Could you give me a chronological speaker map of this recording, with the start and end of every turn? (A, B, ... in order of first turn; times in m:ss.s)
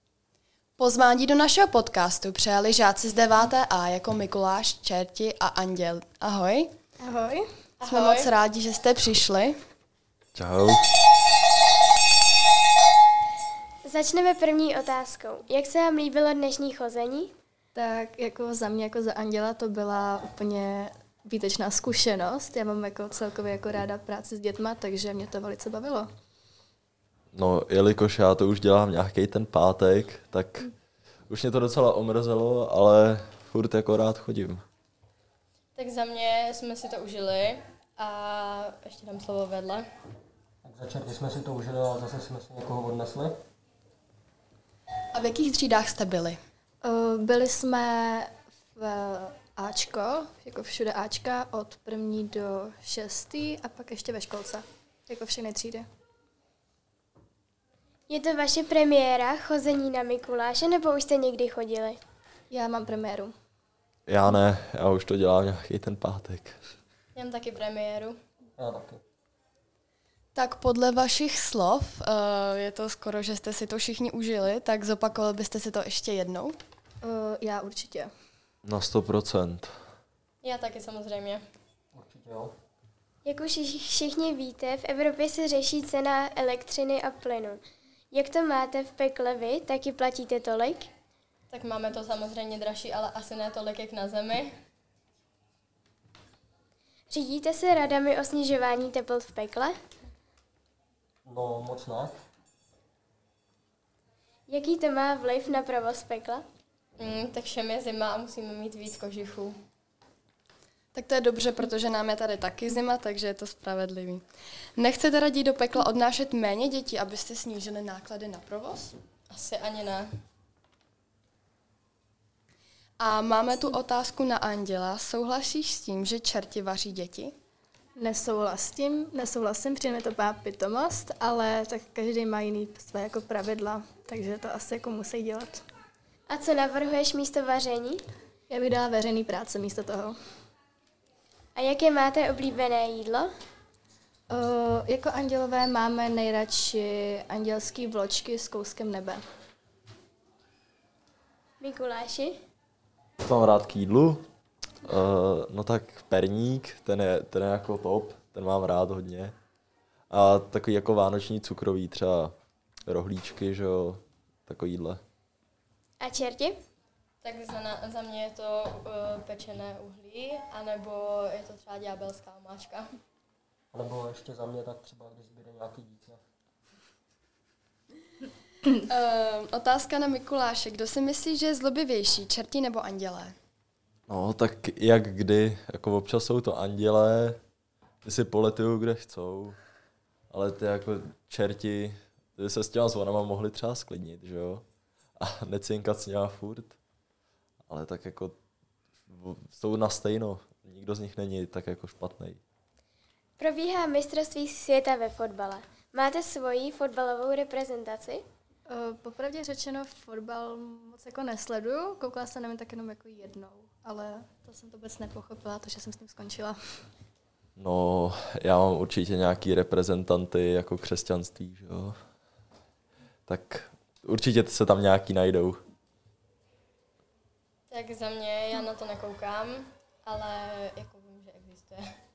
0:00.8-0:06.7 A
0:07.0-0:07.4 B
0:07.8-0:08.3 C
0:07.8-0:09.6 A
0:10.3-0:10.8 D
0:13.8-0:17.3 E
0:17.7-0:26.1 B
0:27.3-0:30.7 D
0:31.3-0:34.6 D
0:35.8-0:39.8 C
0:40.6-0:43.4 F
0:45.1-0:46.4 A
0:46.8-0:55.8 B
0:58.1-1:02.0 E
1:02.5-1:03.3 B
1:04.1-1:06.6 D
1:07.2-1:08.2 C
1:08.6-1:09.0 F
1:10.3-1:16.6 A
1:17.0-1:18.1 B
1:18.6-1:19.7 D
1:20.4-1:21.4 C
1:21.9-1:22.5 F
1:23.2-1:27.6 E
1:28.1-1:30.9 E
1:31.5-1:34.5 C
1:37.1-1:39.8 E
1:41.2-1:42.1 F
1:44.5-1:46.4 E
1:47.0-1:49.6 C
1:50.9-1:54.2 A
1:54.8-1:59.0 A
1:59.3-2:00.1 C
2:03.0-2:07.3 A
2:08.0-2:15.6 B
2:16.3-2:18.0 E
2:18.5-2:20.2 B
2:21.6-2:23.3 E
2:24.3-2:29.2 B
2:31.6-2:32.4 E
2:33.2-2:34.2 D
2:34.8-2:39.3 D
2:40.1-2:42.3 D
2:42.9-2:45.0 D
2:46.0-2:46.6 E
2:47.2-2:52.8 C
2:53.7-2:56.2 F
2:58.7-3:03.3 A
3:04.1-3:07.4 D
3:08.0-3:09.6 D
3:10.3-3:14.6 D
3:15.2-3:16.8 D
3:17.7-3:18.4 D
3:19.1-3:22.4 D
3:23.4-3:28.2 E
3:28.7-3:36.6 B
3:37.6-3:42.0 D
3:43.3-3:45.6 D
3:47.7-3:51.8 C